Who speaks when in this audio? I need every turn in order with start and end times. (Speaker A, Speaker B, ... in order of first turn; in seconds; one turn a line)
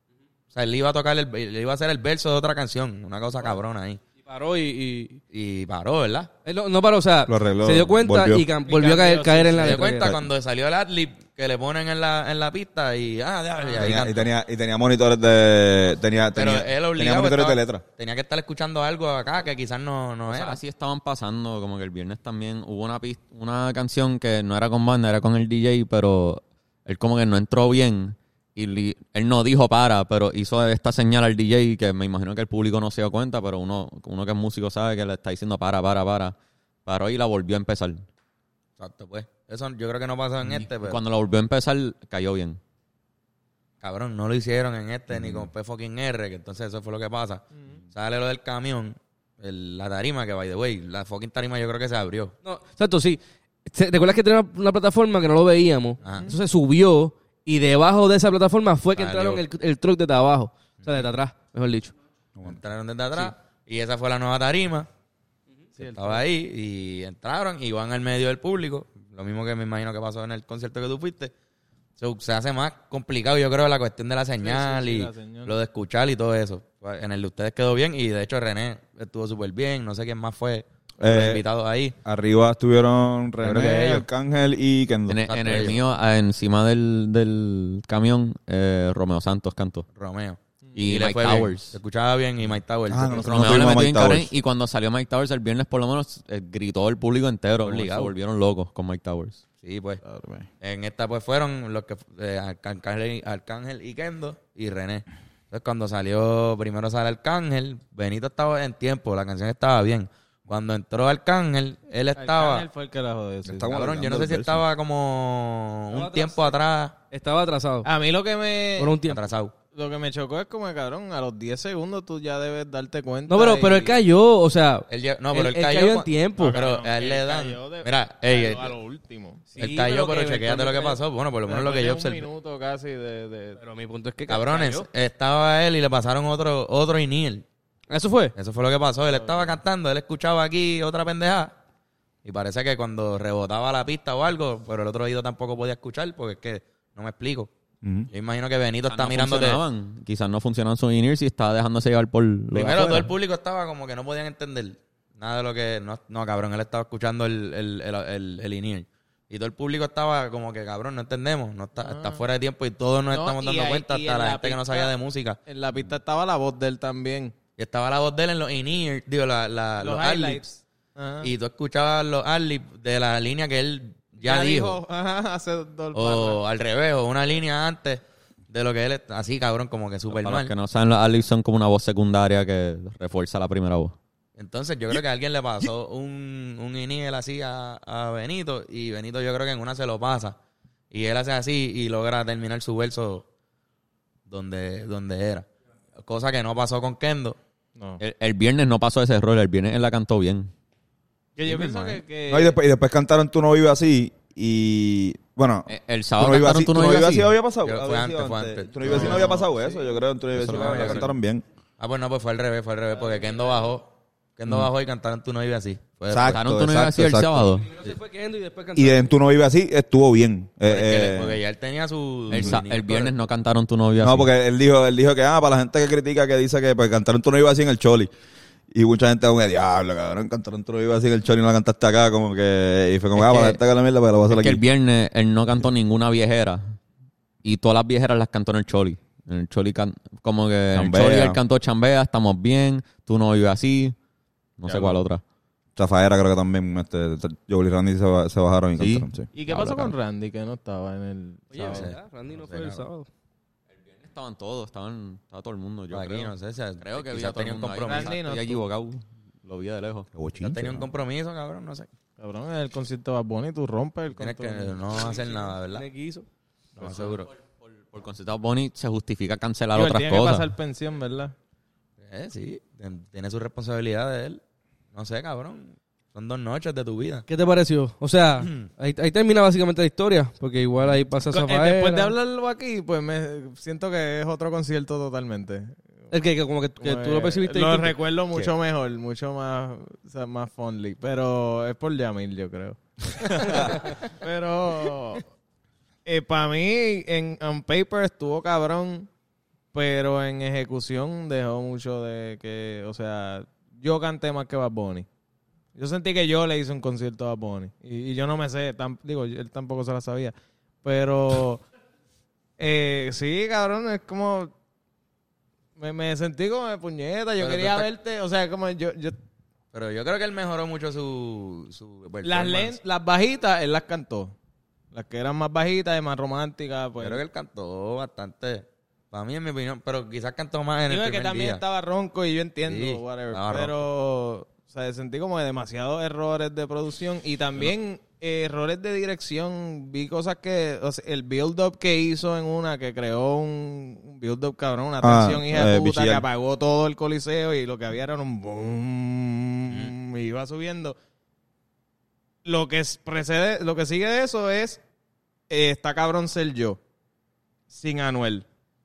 Speaker A: 0.5-4.0
Speaker B: 4.2-5.2
Speaker A: 5.3-6.3
Speaker B: 6.5-10.1
Speaker C: 7.3-8.5
Speaker D: 8.7-9.9
Speaker A: 9.6-14.3
Speaker C: 13.8-17.8
Speaker A: 16.4-20.6
Speaker E: 20.3-36.4
Speaker E: 36.9-38.0
Speaker A: 38.8-41.0
Speaker E: 40.6-42.6
Speaker A: 43.8-52.3
Speaker C: 45.1-45.5
Speaker B: 52.4-62.0
Speaker A: 56.0-56.3
Speaker A: 59.0-59.4
Speaker A: 62.5-64.9
Speaker A: 65.8-71.3
Speaker D: 65.8-66.2
Speaker A: 72.0-82.0
Speaker D: 74.4-75.5
Speaker C: 81.0-81.4
Speaker C: 82.0-85.7
Speaker A: 83.4-84.1
Speaker E: 85.1-89.9
Speaker A: 85.3-85.8
Speaker A: 90.0-93.8
Speaker E: 90.8-91.8
Speaker C: 92.9-94.3
Speaker E: 93.2-99.4
Speaker A: 97.6-98.1
Speaker A: 99.6-100.0
Speaker C: 100.0-100.5
Speaker A: 100.6-112.7
Speaker D: 112.2-113.8
Speaker C: 113.5-114.6
Speaker A: 113.6-117.0
Speaker B: 115.9-116.6
Speaker B: 117.1-117.9
Speaker D: 117.8-119.0
Speaker B: 118.8-119.2
Speaker A: 119.1-119.5
Speaker D: 119.7-124.0
Speaker B: 123.3-126.6
Speaker A: 124.9-128.8
Speaker D: 126.4-129.6
Speaker B: 129.6-131.0
Speaker A: 129.6-132.3
Speaker D: 131.5-133.6
Speaker B: 133.6-134.9
Speaker A: 134.3-137.4
Speaker B: 137.9-138.3
Speaker A: 138.4-141.5
Speaker D: 139.1-139.6
Speaker A: 142.2-147.5
Speaker C: 147.8-148.1
Speaker A: 148.1-149.6
Speaker E: 148.9-153.1
Speaker A: 152.5-165.4
Speaker D: 161.8-162.2
Speaker D: 163.1-164.9
Speaker D: 165.5-167.3
Speaker A: 167.6-170.4
Speaker D: 169.8-171.3
Speaker A: 171.2-174.8
Speaker D: 174.2-176.4
Speaker A: 175.9-180.5
Speaker E: 180.1-184.0
Speaker A: 184.4-190.4
Speaker A: 190.9-193.2
Speaker A: 194.3-195.5
Speaker A: 196.0-197.4
Speaker E: 198.0-200.5
Speaker D: 201.4-202.6
Speaker C: 202.3-211.4
Speaker E: 205.7-207.3
Speaker A: 207.6-209.4
Speaker D: 208.8-209.6
Speaker E: 210.3-211.1
Speaker A: 210.5-211.1
Speaker A: 211.8-216.4
Speaker C: 216.1-217.6
Speaker E: 216.3-217.7
Speaker B: 217.8-219.1
Speaker C: 218.8-221.4
Speaker A: 220.7-223.1
Speaker E: 222.3-224.3
Speaker C: 224.0-228.1
Speaker C: 228.7-234.6
Speaker E: 233.2-233.6
Speaker E: 234.3-236.8
Speaker E: 237.4-243.9
Speaker C: 240.7-241.4
Speaker E: 244.6-245.2
Speaker D: 244.7-244.9
Speaker C: 245.8-249.3
Speaker E: 248.8-249.9
Speaker D: 249.3-251.9
Speaker B: 251.5-253.1
Speaker A: 251.7-252.8
Speaker E: 253.9-260.1
Speaker A: 255.9-258.2
Speaker D: 257.9-258.6
Speaker C: 260.1-260.9
Speaker A: 260.4-261.9
Speaker D: 262.2-264.9
Speaker A: 264.2-265.9
Speaker B: 265.6-266.3
Speaker A: 266.8-267.3
Speaker E: 267.6-270.5
Speaker D: 269.7-271.3
Speaker A: 272.1-274.4
Speaker A: 274.9-277.3
Speaker B: 277.3-282.1
Speaker A: 278.4-278.7
Speaker D: 281.3-285.8
Speaker B: 286.1-288.0
Speaker D: 286.8-295.3
Speaker C: 293.4-293.7
Speaker D: 296.1-299.1
Speaker D: 299.7-305.1
Speaker D: 305.8-311.6
Speaker D: 312.6-314.5
Speaker D: 315.8-319.2
Speaker A: 317.4-317.9
Speaker A: 319.7-322.8
Speaker D: 322.2-324.3
Speaker D: 324.9-327.2
Speaker A: 327.0-331.6
Speaker D: 330.9-351.0
Speaker A: 332.7-333.8
Speaker C: 345.0-346.3
Speaker A: 349.7-349.9
Speaker D: 352.4-354.8
Speaker D: 355.5-356.8
Speaker D: 357.7-358.4